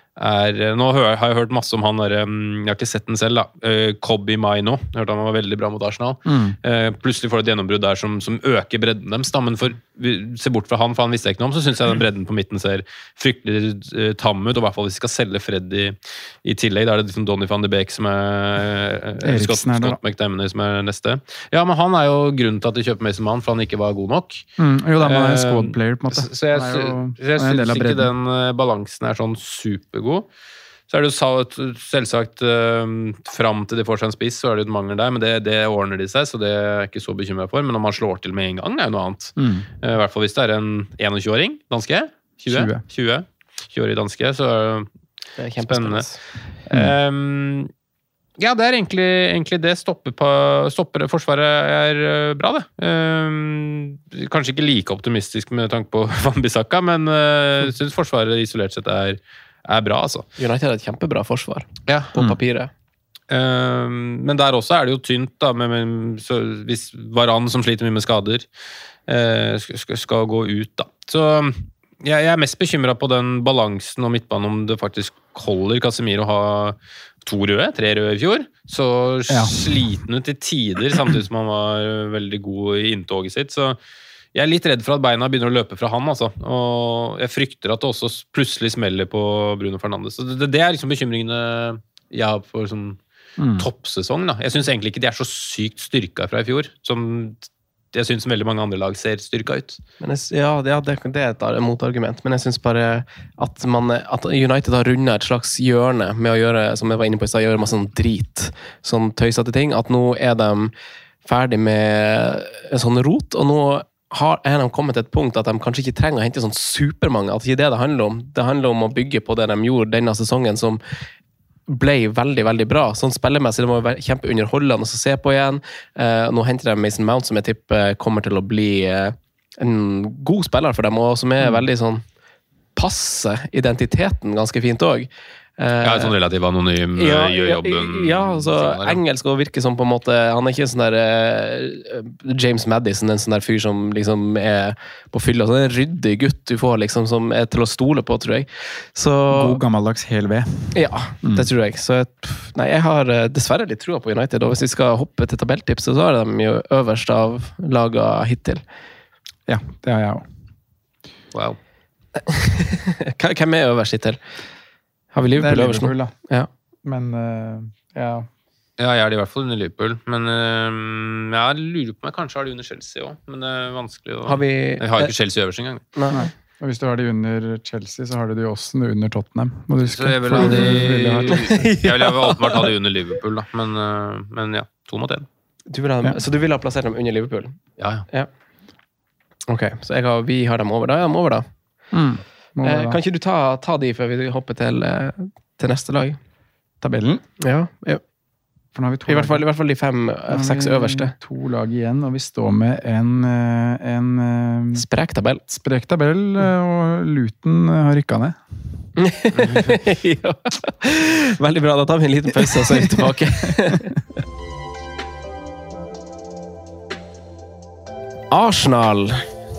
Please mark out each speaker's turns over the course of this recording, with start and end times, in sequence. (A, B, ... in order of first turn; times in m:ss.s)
0:00.2-0:24.4 A
0:06.2-0:06.6 B
0:19.2-0:20.0 B
0:24.6-0:28.1 B
0:25.0-0:30.3 A
0:30.9-0:44.9 A
0:39.4-0:39.7 B
0:42.5-0:42.8 B
0:45.4-0:46.2 C
0:45.6-0:46.1 A
0:46.6-0:47.7 A
0:48.4-1:00.3 A
1:00.4-1:02.7 C
1:03.3-1:08.4 A
1:09.1-1:23.8 A
1:19.3-1:19.5 B
1:24.3-1:33.0 A
1:33.4-1:33.7 B
1:33.5-1:39.8 A
1:40.0-1:50.7 C
1:51.2-2:00.8 C
2:01.7-2:12.0 C
2:12.8-2:16.1 C
2:15.8-2:19.0 A
2:17.0-2:29.6 C
2:29.3-2:31.5 B
2:30.7-2:38.6 C
2:39.5-2:40.2 B
2:42.2-2:44.2 C
2:45.1-2:46.5 C
2:45.4-2:46.1 B
2:46.8-2:48.3 B
2:48.8-2:55.8 A
2:54.2-2:55.1 C
2:56.0-2:56.2 C
2:56.1-3:01.5 B
2:59.8-3:05.3 A
3:00.4-3:00.7 C
3:01.3-3:02.7 C
3:05.7-3:07.6 C
3:07.8-3:08.0 A
3:09.5-3:11.4 C
3:11.9-3:13.0 B
3:12.6-3:16.2 C
3:16.8-3:17.2 B
3:17.4-3:18.0 C
3:18.7-3:19.4 B
3:19.1-3:21.1 C
3:20.3-3:24.8 B
3:24.7-3:25.4 C
3:25.5-3:28.4 B
3:29.0-3:34.0 C
3:29.4-3:29.8 A
3:32.4-3:33.0 B
3:38.3-3:39.2 C